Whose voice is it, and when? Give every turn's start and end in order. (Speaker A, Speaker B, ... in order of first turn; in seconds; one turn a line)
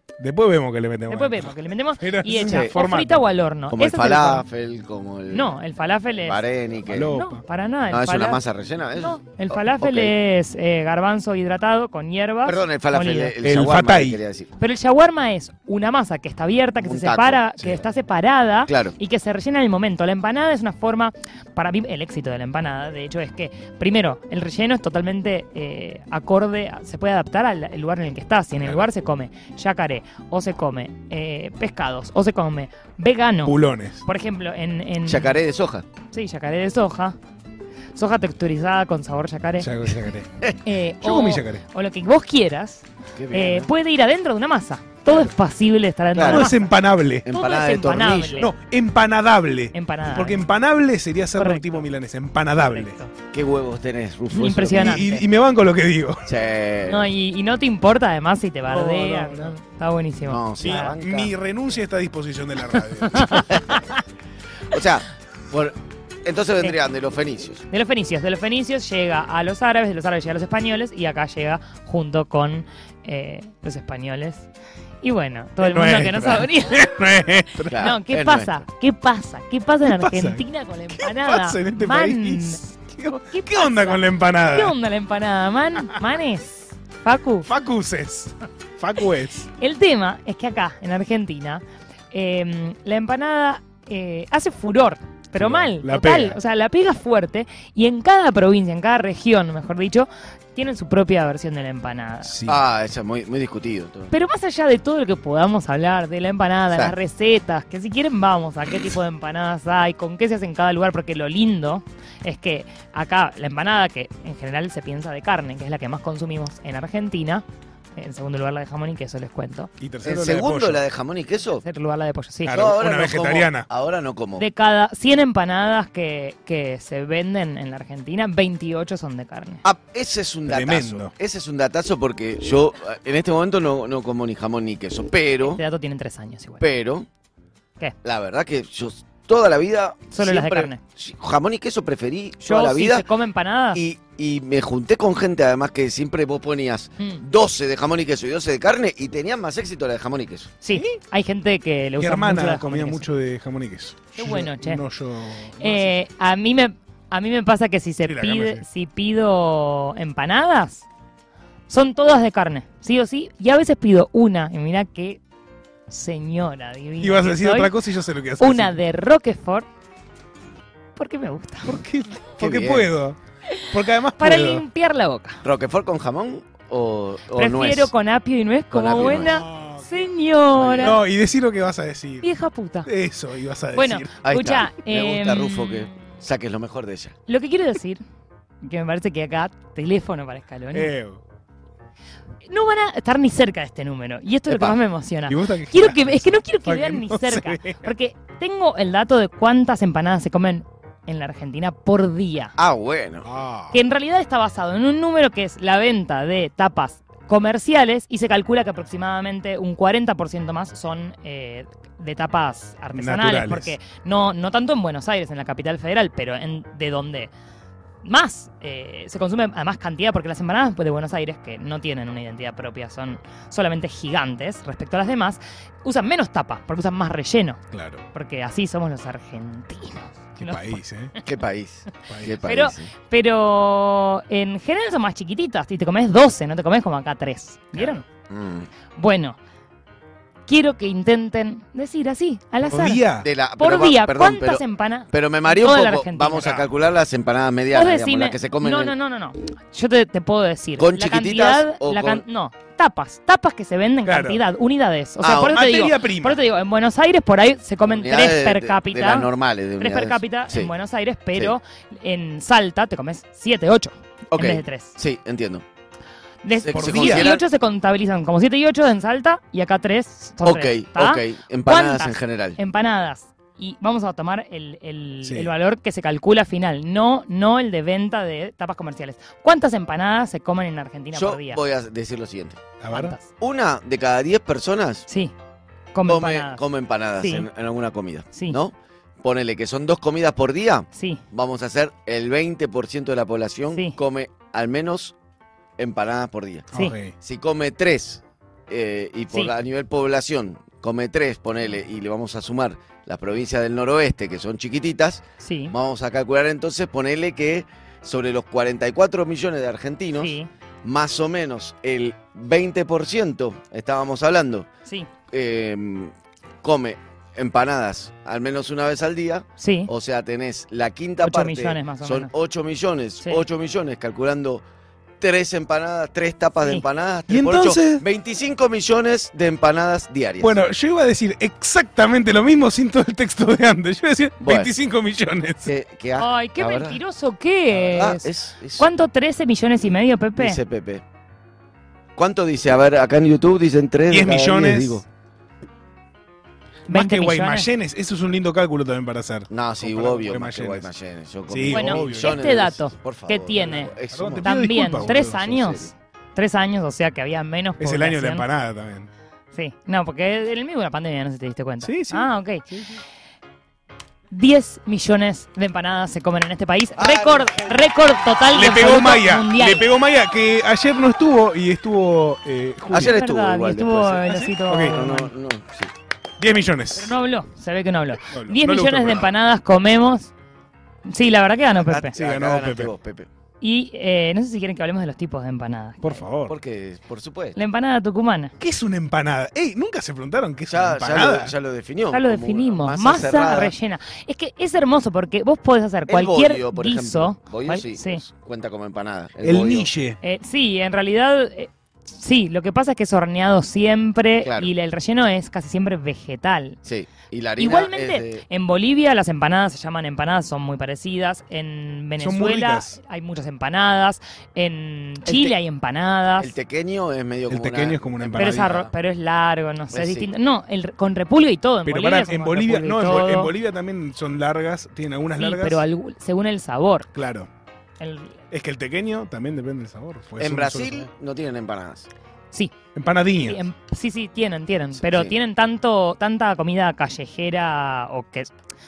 Speaker A: 0.2-3.3
Speaker B: 1.1-4.4
Speaker C: 2.4-2.7
Speaker C: 3.7-5.6
Speaker B: 5.3-6.4
Speaker C: 6.2-7.2
Speaker A: 6.8-7.4
Speaker B: 7.0-8.4
Speaker C: 7.9-10.1
Speaker B: 9.0-13.4
Speaker C: 12.4-14.5
Speaker A: 13.4-14.2
Speaker B: 14.6-35.4
Speaker C: 16.8-17.9
Speaker C: 18.7-18.9
Speaker A: 33.4-34.0
Speaker C: 35.0-35.9
Speaker B: 36.1-37.1
Speaker B: 37.9-39.7
Speaker A: 39.6-40.4
Speaker C: 40.4-40.7
Speaker B: 40.6-46.7
Speaker A: 41.0-41.6
Speaker C: 43.2-43.7
Speaker C: 46.1-46.5
Speaker A: 46.2-47.3
Speaker C: 47.2-48.5
Speaker B: 47.3-48.5
Speaker A: 48.4-53.0
Speaker B: 49.7-50.4
Speaker B: 51.4-51.9
Speaker B: 52.5-53.1
Speaker C: 53.3-55.0
Speaker B: 54.3-55.2
Speaker A: 54.7-56.3
Speaker C: 56.2-57.1
Speaker B: 56.9-61.0
Speaker A: 58.7-59.5
Speaker C: 60.3-61.3
Speaker A: 60.6-63.6
Speaker B: 62.7-64.0
Speaker C: 64.7-67.6
Speaker B: 67.7-74.5
Speaker B: 75.0-76.9
Speaker A: 75.6-77.9
Speaker C: 77.7-78.6
Speaker B: 77.8-82.7
Speaker A: 79.8-80.4
Speaker A: 80.9-84.8
Speaker B: 83.2-87.5
Speaker A: 87.5-89.5
Speaker B: 89.5-102.3
Speaker A: 95.3-96.4
Speaker A: 102.2-102.6
Speaker C: 102.5-104.1
Speaker B: 104.1-117.4
Speaker B: 118.0-119.7
Speaker A: 119.8-120.8
Speaker C: 120.0-121.6
Speaker B: 121.6-122.7
Speaker A: 122.4-123.7
Speaker C: 122.5-124.5
Speaker B: 124.4-129.6
Speaker C: 129.6-135.6
Speaker A: 130.5-131.1
Speaker B: 135.4-136.6
Speaker C: 136.6-137.1
Speaker C: 138.0-143.1
Speaker B: 140.1-140.8
Speaker B: 142.4-143.8
Speaker C: 143.7-150.6
Speaker B: 150.6-153.1
Speaker A: 152.0-156.0
Speaker B: 154.1-154.8
Speaker B: 155.6-160.8
Speaker A: 158.0-158.6
Speaker B: 161.7-165.2
Speaker B: 165.9-167.7
Speaker A: 167.0-168.8
Speaker B: 168.4-169.7
Speaker B: 170.9-171.8
Speaker A: 171.6-173.2
Speaker C: 172.4-172.9
Speaker B: 173.5-175.4
Speaker A: 173.7-174.6
Speaker C: 175.4-177.9
Speaker B: 177.3-181.0
Speaker C: 178.7-179.4
Speaker A: 179.2-180.1
Speaker C: 180.5-181.0
Speaker A: 180.8-182.3
Speaker B: 182.2-182.9
Speaker A: 182.8-184.2
Speaker B: 183.7-186.2
Speaker C: 184.2-187.1
Speaker B: 187.3-188.0
Speaker B: 188.6-190.9
Speaker A: 190.7-191.2
Speaker B: 192.5-202.5
Speaker C: 194.5-194.8
Speaker A: 195.3-197.9
Speaker C: 202.6-203.3
Speaker A: 203.2-203.8
Speaker B: 203.7-217.3
Speaker A: 212.9-213.7
Speaker B: 218.0-227.6
Speaker A: 227.7-228.0
Speaker B: 228.1-231.2
Speaker A: 230.4-231.1
Speaker C: 231.2-232.9
Speaker A: 232.1-232.4
Speaker B: 232.4-238.0
Speaker A: 237.7-238.0
Speaker C: 238.3-238.7
Speaker B: 238.9-239.4
Speaker B: 240.5-246.6
Speaker A: 242.7-243.3
Speaker C: 243.2-248.9
Speaker A: 246.4-246.6
Speaker B: 247.7-264.9
Speaker C: 250.8-252.2
Speaker A: 254.0-254.4
Speaker C: 255.2-255.6
Speaker A: 255.4-256.4
Speaker C: 257.8-260.7
Speaker C: 264.3-265.6
Speaker B: 266.4-281.6
Speaker C: 266.6-267.4
Speaker A: 266.7-267.3
Speaker C: 270.4-272.6
Speaker A: 275.2-275.5
Speaker C: 281.1-282.6
Speaker A: 282.8-283.1
Speaker B: 282.9-283.3
Speaker C: 283.4-285.1
Speaker B: 285.1-285.3
Speaker B: 285.9-286.6
Speaker C: 286.1-295.1
Speaker B: 287.2-287.5
Speaker B: 288.3-288.6
Speaker B: 290.9-291.2
Speaker B: 293.7-294.0
Speaker C: 295.8-296.7
Speaker A: 296.7-297.1
Speaker C: 297.2-310.3
Speaker B: 305.4-305.7
Speaker B: 310.1-310.5
Speaker C: 310.8-314.7
Speaker C: 315.3-316.1
Speaker C: 316.6-324.6
Speaker B: 319.6-319.9
Speaker B: 321.2-322.3
Speaker C: 325.2-330.6
Speaker A: 327.3-328.0
Speaker A: 330.4-335.7
Speaker C: 334.4-334.7
Speaker C: 335.6-337.0
Speaker B: 336.2-340.6
Speaker C: 337.7-338.9
Speaker C: 340.4-341.0
Speaker C: 342.1-345.0
Speaker A: 344.1-345.0
Speaker A: 346.9-350.9
Speaker B: 346.9-347.7
Speaker C: 349.5-355.9
Speaker A: 351.5-352.4
Speaker B: 351.7-358.4
Speaker A: 354.1-355.4
Speaker A: 357.8-359.1
Speaker B: 359.5-362.7
Speaker A: 361.8-363.0
Speaker B: 364.3-369.9
Speaker C: 367.0-367.8
Speaker A: 368.5-373.2
Speaker C: 372.9-375.9
Speaker B: 372.9-375.3
Speaker A: 374.2-375.1
Speaker A: 376.4-377.1
Speaker B: 376.9-380.3
Speaker A: 378.2-379.3
Speaker B: 381.1-382.1
Speaker C: 381.7-383.3
Speaker A: 382.1-382.9
Speaker B: 383.6-386.2
Speaker A: 386.0-386.5
Speaker C: 386.4-387.6
Speaker B: 387.6-388.5
Speaker A: 388.6-391.5
Speaker C: 390.7-393.7
Speaker B: 392.1-398.2
Speaker C: 396.1-399.9
Speaker A: 399.4-400.2
Speaker B: 400.2-406.8
Speaker C: 404.4-404.7
Speaker C: 406.8-408.4
Speaker B: 407.6-416.5
Speaker A: 412.2-412.9
Speaker C: 415.2-415.5
Speaker C: 416.4-418.9
Speaker A: 417.5-418.8
Speaker B: 418.4-423.5
Speaker C: 419.9-420.3
Speaker A: 421.8-425.8
Speaker B: 425.4-427.1
Speaker A: 427.1-427.5
Speaker B: 428.0-428.4
Speaker A: 428.5-431.1
Speaker C: 430.4-432.1
Speaker A: 432.9-433.6
Speaker B: 433.3-438.5
Speaker C: 435.0-435.3